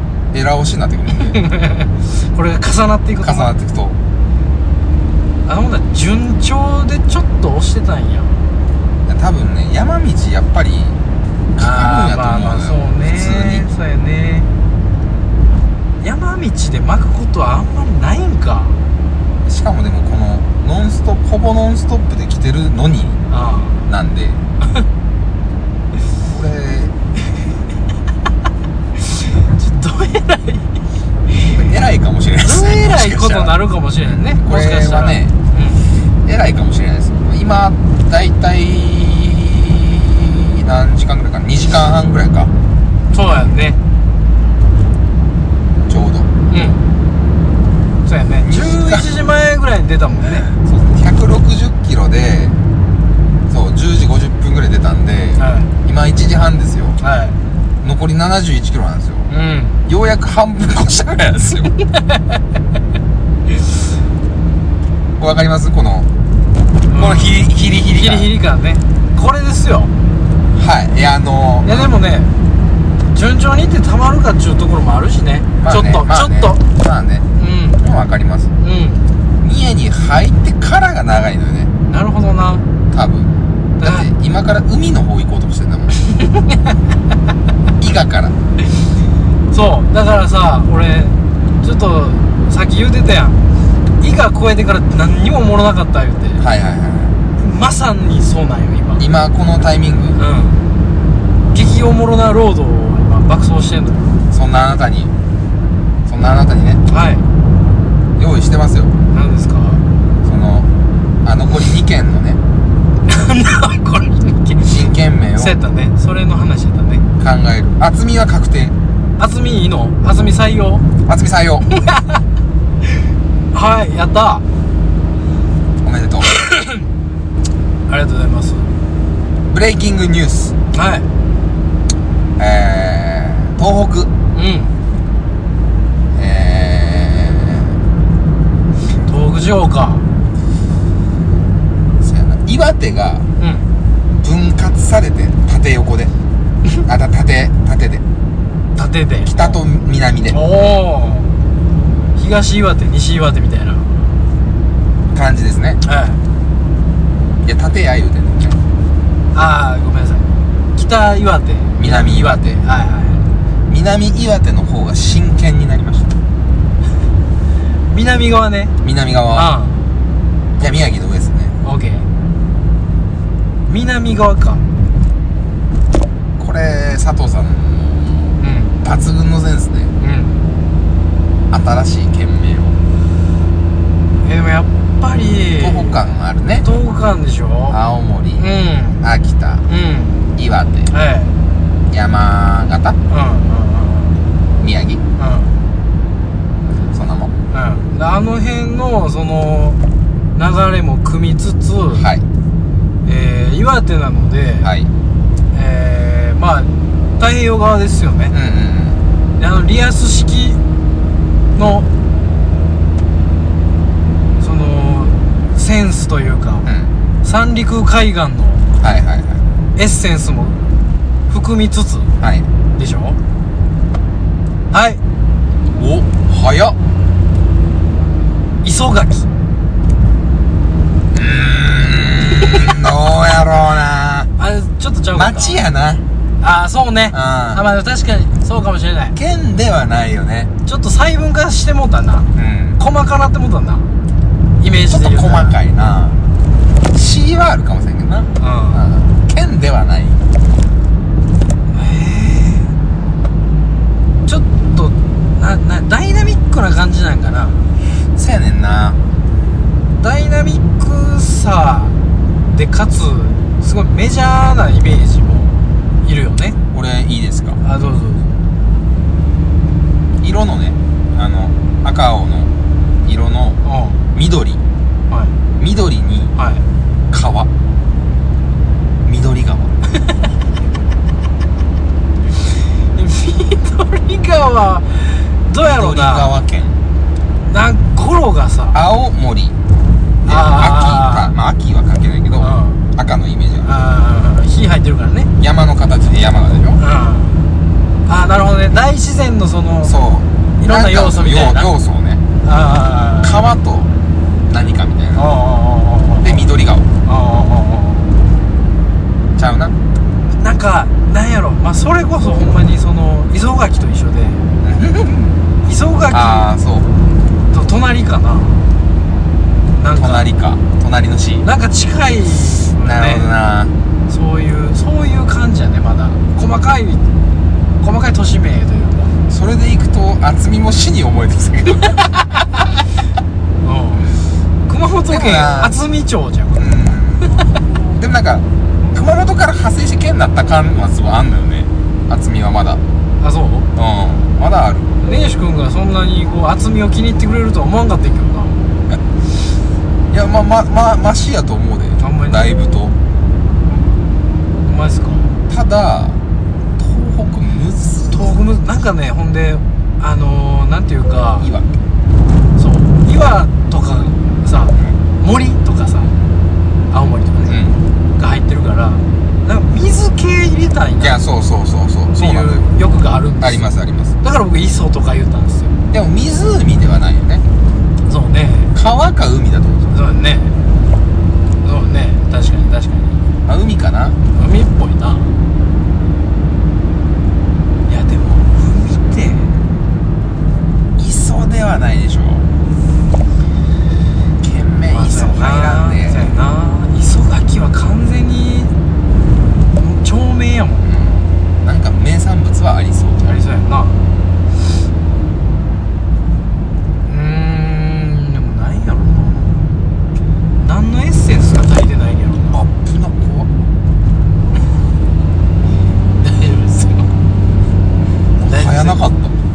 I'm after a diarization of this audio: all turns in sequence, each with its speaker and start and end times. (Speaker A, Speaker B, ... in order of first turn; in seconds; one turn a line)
Speaker A: 0.3-1.4
Speaker B: 1.1-3.5
Speaker A: 3.2-4.0
Speaker B: 5.5-8.4
Speaker A: 9.1-11.0
Speaker A: 11.6-13.7
Speaker B: 11.6-14.5
Speaker B: 16.0-18.8
Speaker A: 19.5-23.2
Speaker B: 23.3-23.8
Speaker A: 23.9-24.4
Speaker A: 26.3-26.9
Speaker B: 29.1-30.7
Speaker A: 31.4-35.4
Speaker B: 32.4-35.8
Speaker A: 36.2-42.5
Speaker B: 43.1-43.8
Speaker A: 45.9-46.3
Speaker B: 46.5-46.9
Speaker B: 48.0-50.5
Speaker A: 48.4-49.1
Speaker A: 50.4-52.6
Speaker A: 53.5-57.0
Speaker B: 55.4-55.7
Speaker B: 57.0-57.4
Speaker A: 57.8-59.3
Speaker B: 59.3-59.8
Speaker A: 59.9-61.7
Speaker B: 61.9-62.2
Speaker A: 65.2-66.1
Speaker B: 66.9-69.9
Speaker A: 67.0-68.3
Speaker A: 70.5-71.9
Speaker B: 71.7-72.3
Speaker B: 73.1-76.6
Speaker A: 75.6-77.3
Speaker B: 77.4-77.8
Speaker A: 77.8-78.5
Speaker B: 78.6-79.1
Speaker A: 79.4-81.7
Speaker B: 81.9-82.7
Speaker A: 82.9-86.0
Speaker B: 83.8-84.1
Speaker B: 86.0-86.7
Speaker A: 87.8-88.4
Speaker B: 89.5-93.4
Speaker B: 94.0-96.5
Speaker A: 96.4-97.2
Speaker B: 97.4-99.0
Speaker A: 99.0-100.2
Speaker B: 100.2-100.6
Speaker B: 101.5-104.1
Speaker A: 104.3-105.1
Speaker A: 106.1-106.8
Speaker B: 106.9-107.2
Speaker A: 108.2-108.9
Speaker B: 109.1-109.8
Speaker A: 110.2-110.7
Speaker A: 111.2-112.4
Speaker B: 113.1-114.8
Speaker A: 114.7-115.6
Speaker B: 115.4-117.0
Speaker A: 117.2-118.8
Speaker B: 119.2-120.9
Speaker A: 121.0-121.7
Speaker B: 121.8-122.2
Speaker B: 123.5-124.4
Speaker A: 125.8-126.3
Speaker B: 126.3-126.9
Speaker B: 127.9-128.7
Speaker A: 129.5-130.5
Speaker B: 130.7-131.1
Speaker A: 132.4-134.1
Speaker B: 134.3-134.8
Speaker A: 136.2-137.8
Speaker B: 139.1-140.1
Speaker A: 142.0-143.3
Speaker B: 143.4-143.7
Speaker A: 144.2-146.1
Speaker A: 146.8-148.0
Speaker B: 148.8-149.6
Speaker A: 149.2-150.4
Speaker B: 150.3-151.3
Speaker B: 152.2-154.0
Speaker A: 155.1-155.8
Speaker B: 155.8-156.2
Speaker A: 157.4-158.6
Speaker B: 159.3-163.3
Speaker A: 161.8-162.6
Speaker A: 163.7-166.2
Speaker B: 167.9-168.8
Speaker A: 168.8-169.5
Speaker B: 169.3-169.8
Speaker A: 170.6-171.6
Speaker B: 171.6-172.1
Speaker B: 173.7-174.7
Speaker A: 176.4-179.9
Speaker B: 178.4-178.8
Speaker B: 180.0-180.4
Speaker A: 181.5-182.8
Speaker B: 184.2-186.0
Speaker A: 185.6-186.7
Speaker B: 186.6-187.8
Speaker A: 187.7-189.7
Speaker B: 188.4-189.0
Speaker B: 189.7-190.3
Speaker A: 190.4-190.9
Speaker B: 190.9-191.3
Speaker A: 191.9-193.0
Speaker B: 193.1-194.2
Speaker A: 194.6-195.0
Speaker B: 195.2-195.6
Speaker A: 196.9-197.3
Speaker B: 197.5-199.8
Speaker B: 200.3-202.1
Speaker A: 201.9-202.3
Speaker B: 203.1-204.7
Speaker A: 204.6-204.9
Speaker B: 205.5-208.3
Speaker A: 208.3-209.0
Speaker B: 209.4-210.6
Speaker B: 211.6-211.9
Speaker B: 214.4-216.7
Speaker A: 216.7-216.9
Speaker B: 217.2-218.7
Speaker A: 218.8-219.4
Speaker B: 219.8-220.6
Speaker B: 221.3-222.1
Speaker A: 222.2-222.5
Speaker B: 222.8-223.2
Speaker B: 224.7-225.0
Speaker A: 225.7-226.8
Speaker B: 228.6-229.3
Speaker A: 231.1-234.3
Speaker B: 234.4-235.6
Speaker A: 235.1-236.0
Speaker B: 236.4-239.2
Speaker A: 237.1-237.6
Speaker A: 239.2-240.5
Speaker B: 240.7-242.3
Speaker A: 242.3-242.8
Speaker B: 242.8-243.9
Speaker B: 244.6-245.6
Speaker A: 244.9-246.2
Speaker A: 246.9-250.2
Speaker B: 248.4-248.9
Speaker B: 251.7-252.7
Speaker B: 254.3-257.7
Speaker A: 258.1-259.0
Speaker B: 260.0-262.0
Speaker B: 262.5-266.6
Speaker A: 266.7-267.6
Speaker B: 267.6-268.3
Speaker A: 270.2-272.5
Speaker A: 273.0-273.6
Speaker B: 273.6-274.0
Speaker A: 274.1-274.6
Speaker B: 275.1-275.4
Speaker A: 275.6-276.3
Speaker B: 276.4-276.6
Speaker A: 277.1-277.5
Speaker A: 279.1-279.8
Speaker B: 282.9-286.4
Speaker A: 285.6-286.8
Speaker B: 287.5-288.8
Speaker A: 288.7-289.6
Speaker B: 290.2-291.3
Speaker A: 290.2-293.8
Speaker B: 292.4-292.8
Speaker B: 293.6-295.3
Speaker A: 295.4-296.8
Speaker B: 296.8-297.5
Speaker B: 298.1-300.0
Speaker A: 299.9-302.2
Speaker B: 300.6-301.7
Speaker B: 302.4-303.4
Speaker A: 303.2-303.9
Speaker A: 304.5-305.3
Speaker B: 305.1-306.4
Speaker A: 306.2-306.9
Speaker B: 307.1-308.2
Speaker A: 309.4-309.8
Speaker B: 310.4-314.4
Speaker A: 314.6-315.4
Speaker B: 315.6-316.5
Speaker A: 316.1-316.9
Speaker B: 317.5-318.6
Speaker B: 319.8-320.3
Speaker A: 319.9-321.5
Speaker B: 321.4-323.3
Speaker A: 322.8-323.7
Speaker B: 324.1-327.1
Speaker B: 327.8-329.1
Speaker A: 329.3-332.2
Speaker B: 333.6-336.6
Speaker A: 335.1-335.8
Speaker A: 336.6-337.4
Speaker A: 337.9-342.8
Speaker B: 343.2-343.7
Speaker A: 343.8-344.9
Speaker B: 345.0-348.7
Speaker A: 350.1-353.0
Speaker B: 352.0-352.6
Speaker B: 354.6-355.3
Speaker A: 355.5-356.2
Speaker A: 356.8-358.4
Speaker B: 358.1-361.5
Speaker A: 361.4-361.7
Speaker B: 362.6-366.1
Speaker B: 366.9-367.6
Speaker A: 367.5-367.8
Speaker B: 368.2-371.2
Speaker A: 371.0-372.7
Speaker B: 372.2-373.6
Speaker A: 373.4-374.1
Speaker B: 374.2-375.8
Speaker A: 375.9-377.4
Speaker B: 378.1-378.7
Speaker A: 378.7-379.9
Speaker B: 379.9-380.6
Speaker B: 381.6-383.2
Speaker A: 383.5-384.2
Speaker B: 384.4-385.3
Speaker B: 387.9-389.6
Speaker A: 391.0-392.5
Speaker A: 394.4-396.4
Speaker B: 394.9-398.7
Speaker B: 399.8-400.9
Speaker A: 400.8-403.3
Speaker B: 403.2-404.0
Speaker B: 407.1-409.7
Speaker B: 410.6-412.6
Speaker A: 412.5-413.5
Speaker B: 416.2-417.1
Speaker A: 418.4-419.4
Speaker B: 418.5-419.0